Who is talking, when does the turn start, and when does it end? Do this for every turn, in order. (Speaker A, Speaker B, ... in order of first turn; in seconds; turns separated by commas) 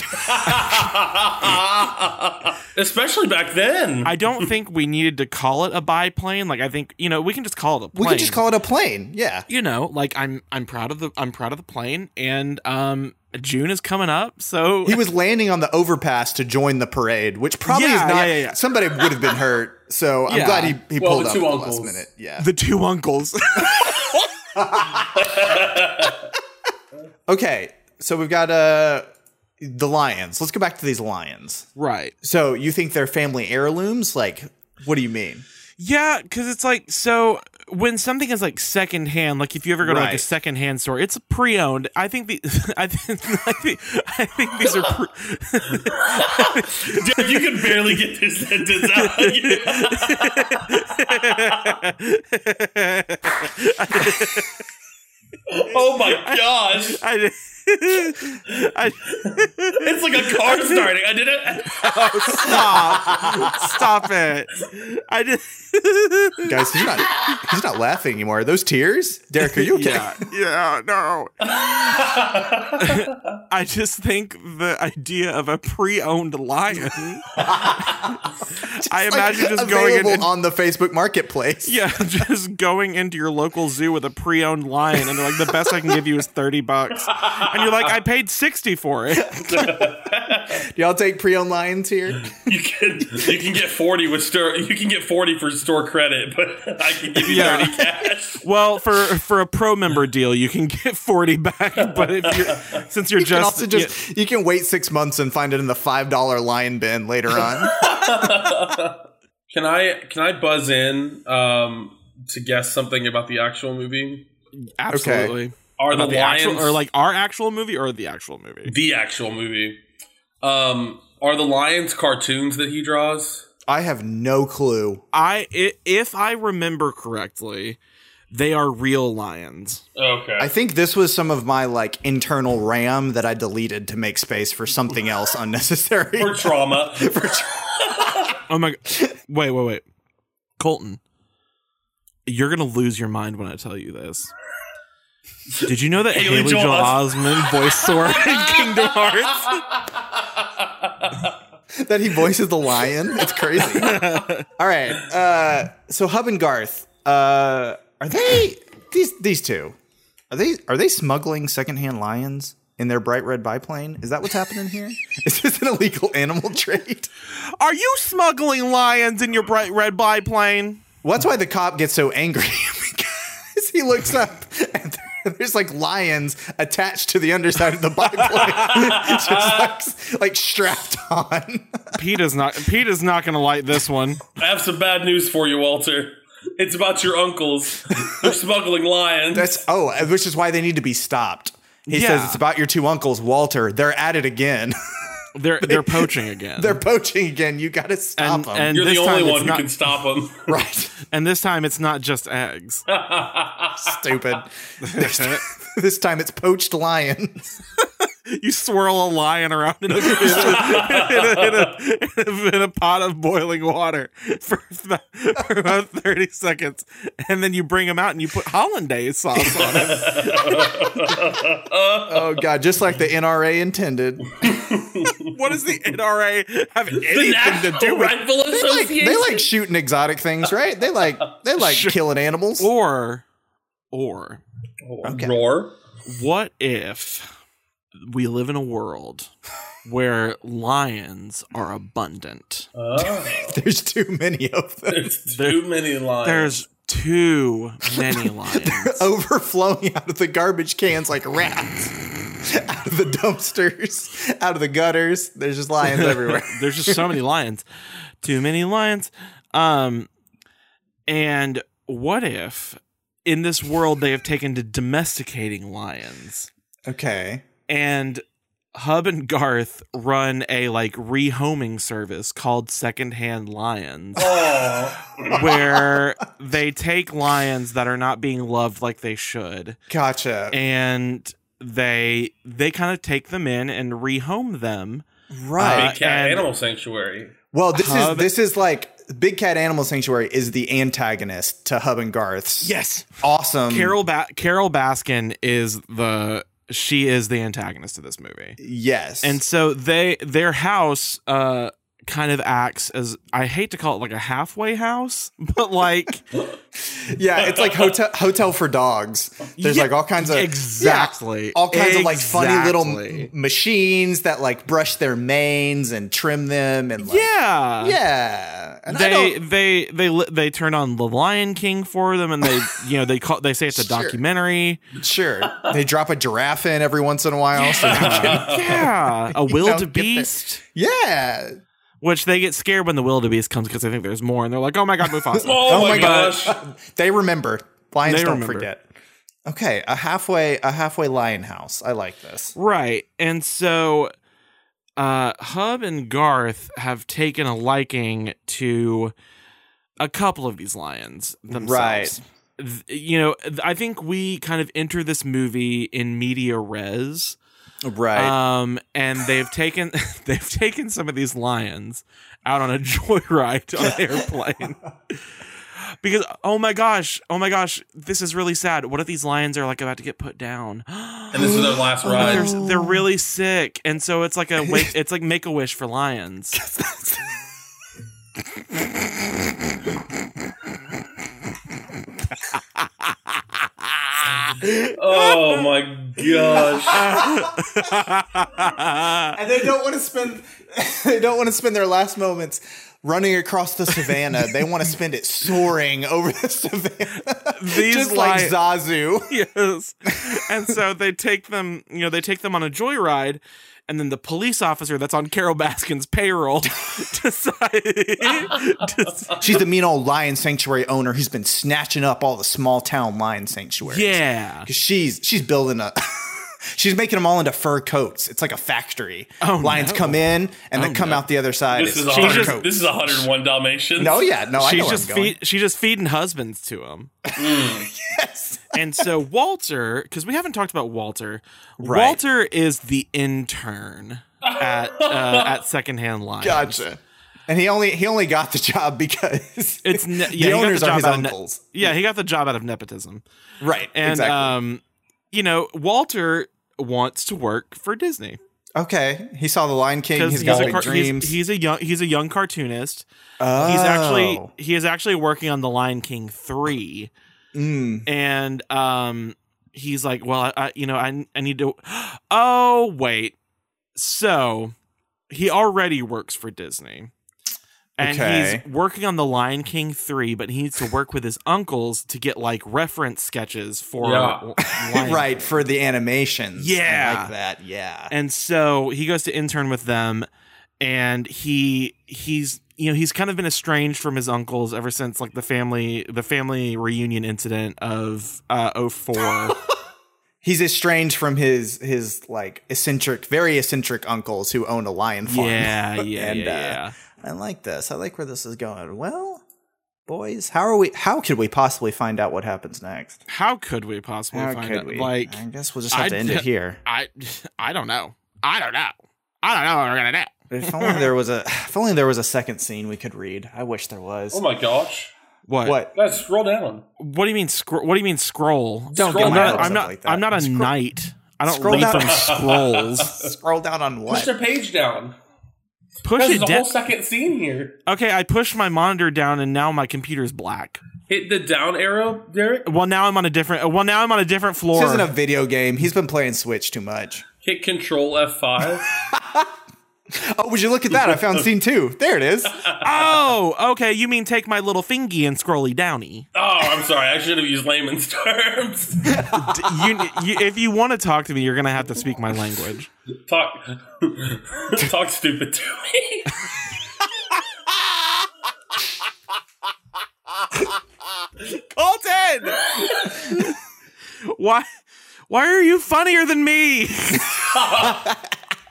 Speaker A: 0.1-4.5, Speaker B: 4.0-8.4, Speaker C: 7.9-9.5, Speaker B: 9.5-15.0, Speaker C: 14.8-22.5, Speaker B: 17.6-18.6, Speaker B: 20.3-20.8, Speaker A: 20.9-22.1, Speaker B: 22.4-24.3, Speaker C: 24.5-25.7, Speaker A: 25.1-26.3, Speaker C: 27.3-29.1, Speaker C: 29.6-31.7, Speaker B: 31.8-32.1, Speaker C: 32.2-35.4, Speaker B: 35.8-47.6, Speaker C: 39.8-40.2, Speaker A: 45.9-51.8, Speaker B: 48.9-54.6, Speaker A: 55.5-57.0, Speaker B: 56.1-60.8, Speaker A: 59.1-63.5, Speaker B: 61.6-66.6, Speaker C: 66.4-70.2, Speaker B: 69.4-71.9, Speaker A: 71.4-72.9, Speaker B: 72.8-80.3, Speaker C: 77.4-81.8, Speaker B: 81.6-89.6, Speaker A: 87.1-87.9, Speaker A: 89.4-90.6, Speaker C: 89.6-89.9, Speaker C: 90.5-92.4, Speaker A: 92.2-98.4, Speaker B: 97.2-97.8, Speaker C: 97.3-98.1, Speaker B: 98.4-103.9, Speaker A: 101.9-102.8, Speaker C: 103.2-108.5, Speaker A: 107.4-114.2, Speaker B: 114.6-118.7, Speaker C: 114.9-115.3, Speaker A: 115.8-116.8, Speaker A: 118.7-119.8, Speaker A: 120.4-123.5, Speaker C: 123.7-125.0, Speaker B: 125.1-127.8, Speaker B: 128.3-129.8, Speaker A: 129.9-130.5, Speaker C: 130.4-137.7, Speaker A: 136.2-138.3, Speaker B: 138.5-139.8, Speaker B: 140.6-141.0, Speaker B: 142.2-144.3, Speaker A: 145.6-151.3, Speaker B: 145.6-149.6, Speaker C: 151.8-159.8, Speaker B: 153.7-154.4, Speaker C: 160.3-167.1, Speaker B: 167.6-170.8, Speaker C: 171.0-182.0, Speaker A: 178.4-179.7, Speaker B: 181.9-184.2, Speaker A: 184.4-189.6, Speaker C: 189.3-194.8, Speaker B: 191.9-192.4, Speaker B: 195.3-196.8, Speaker C: 195.6-198.7, Speaker B: 198.2-199.7, Speaker A: 198.7-200.5, Speaker C: 200.5-200.9, Speaker B: 201.1-202.8, Speaker A: 202.9-204.0, Speaker C: 203.8-207.6, Speaker B: 204.8-205.4, Speaker B: 208.1-221.1, Speaker A: 210.3-211.6, Speaker A: 219.4-222.4, Speaker C: 222.1-224.5, Speaker A: 224.4-225.3, Speaker B: 225.1-228.2, Speaker A: 226.9-229.5, Speaker C: 228.5-232.7, Speaker B: 231.6-232.0, Speaker B: 232.6-233.2, Speaker B: 233.9-234.4, Speaker A: 234.8-235.8, Speaker C: 235.0-235.3, Speaker B: 236.1-237.3, Speaker B: 238.0-239.3, Speaker B: 239.8-242.7, Speaker A: 242.7-243.6, Speaker C: 243.4-245.1, Speaker A: 244.9-246.6, Speaker B: 245.3-245.7, Speaker B: 246.2-249.1, Speaker C: 247.9-257.1, Speaker B: 255.8-257.6, Speaker B: 258.2-260.1, Speaker B: 261.1-266.5, Speaker C: 266.9-267.4, Speaker B: 267.7-268.2, Speaker B: 268.7-274.4, Speaker A: 274.2-275.4, Speaker B: 275.3-279.8, Speaker C: 275.3-276.1, Speaker C: 279.9-280.6, Speaker B: 280.5-285.0, Speaker C: 285.3-285.9, Speaker B: 285.6-286.5, Speaker A: 285.6-287.3, Speaker C: 287.5-293.9, Speaker B: 287.7-288.3, Speaker B: 292.6-293.1, Speaker B: 293.7-298.6, Speaker C: 298.6-299.4, Speaker B: 299.2-306.2, Speaker C: 306.8-319.4, Speaker A: 307.4-307.9, Speaker B: 309.6-313.3, Speaker B: 317.0-318.0, Speaker B: 318.9-324.8, Speaker C: 323.7-324.2, Speaker C: 324.9-331.6, Speaker A: 325.4-325.7, Speaker A: 327.6-328.8, Speaker B: 327.9-330.6, Speaker B: 332.0-336.4, Speaker C: 335.3-338.8, Speaker A: 335.4-336.6, Speaker B: 338.0-338.7, Speaker C: 339.4-342.5, Speaker B: 342.5-344.1, Speaker B: 345.0-349.1, Speaker B: 350.0-357.4, Speaker C: 351.5-352.2, Speaker C: 357.8-358.4, Speaker B: 358.1-376.6, Speaker A: 371.3-372.5, Speaker C: 371.4-373.1, Speaker C: 374.6-374.9, Speaker C: 376.5-377.3, Speaker B: 384.1-385.6, Speaker A: 384.9-387.1, Speaker C: 386.6-388.0, Speaker B: 386.9-389.4, Speaker C: 389.3-399.3, Speaker B: 397.5-398.6, Speaker B: 399.3-409.4, Speaker C: 400.2-400.7, Speaker C: 409.4-423.2, Speaker B: 413.8-414.7, Speaker B: 419.4-421.2, Speaker A: 421.7-424.3, Speaker B: 422.1-422.6, Speaker C: 424.0-425.4, Speaker B: 424.6-427.1, Speaker C: 427.2-429.1, Speaker A: 427.4-427.9, Speaker B: 428.7-436.8, Speaker C: 431.8-432.2, Speaker A: 434.4-435.5, Speaker C: 436.4-441.9, Speaker B: 439.8-443.2, Speaker C: 443.6-444.6, Speaker B: 443.9-448.4, Speaker C: 448.8-451.4, Speaker B: 450.1-457.1, Speaker A: 450.4-450.9, Speaker C: 453.4-454.5, Speaker C: 457.5-458.1, Speaker B: 458.1-463.4, Speaker B: 463.9-464.7, Speaker B: 465.3-467.1, Speaker B: 468.0-475.6, Speaker C: 468.0-468.6, Speaker A: 474.0-474.4, Speaker C: 474.8-478.1, Speaker B: 476.6-477.3, Speaker B: 478.1-480.3, Speaker B: 480.8-489.6, Speaker C: 490.4-499.4, Speaker B: 495.3-496.9, Speaker C: 500.1-503.2, Speaker B: 503.3-505.4, Speaker C: 504.3-506.8, Speaker B: 505.9-511.1, Speaker C: 510.5-514.4, Speaker A: 514.3-515.1, Speaker B: 515.5-515.8, Speaker C: 515.6-515.9, Speaker A: 515.9-516.8, Speaker B: 517.0-523.2, Speaker A: 518.9-519.8, Speaker C: 518.9-520.7, Speaker C: 521.4-522.4, Speaker A: 521.7-523.3, Speaker C: 523.1-524.3, Speaker A: 524.1-525.1, Speaker B: 526.0-526.7, Speaker A: 526.2-527.8, Speaker B: 527.9-530.8, Speaker A: 531.1-532.7, Speaker B: 532.6-535.1, Speaker C: 534.7-537.2, Speaker A: 537.4-538.9, Speaker C: 539.0-539.5, Speaker C: 540.1-542.6, Speaker A: 541.0-541.3, Speaker A: 542.6-542.9, Speaker B: 542.8-546.3, Speaker A: 546.3-549.1, Speaker C: 549.0-550.2, Speaker B: 549.3-552.9, Speaker A: 553.3-556.4, Speaker B: 561.5-563.5, Speaker A: 562.7-563.2, Speaker B: 564.3-564.7, Speaker B: 565.3-567.5, Speaker A: 567.5-567.9, Speaker C: 567.8-568.3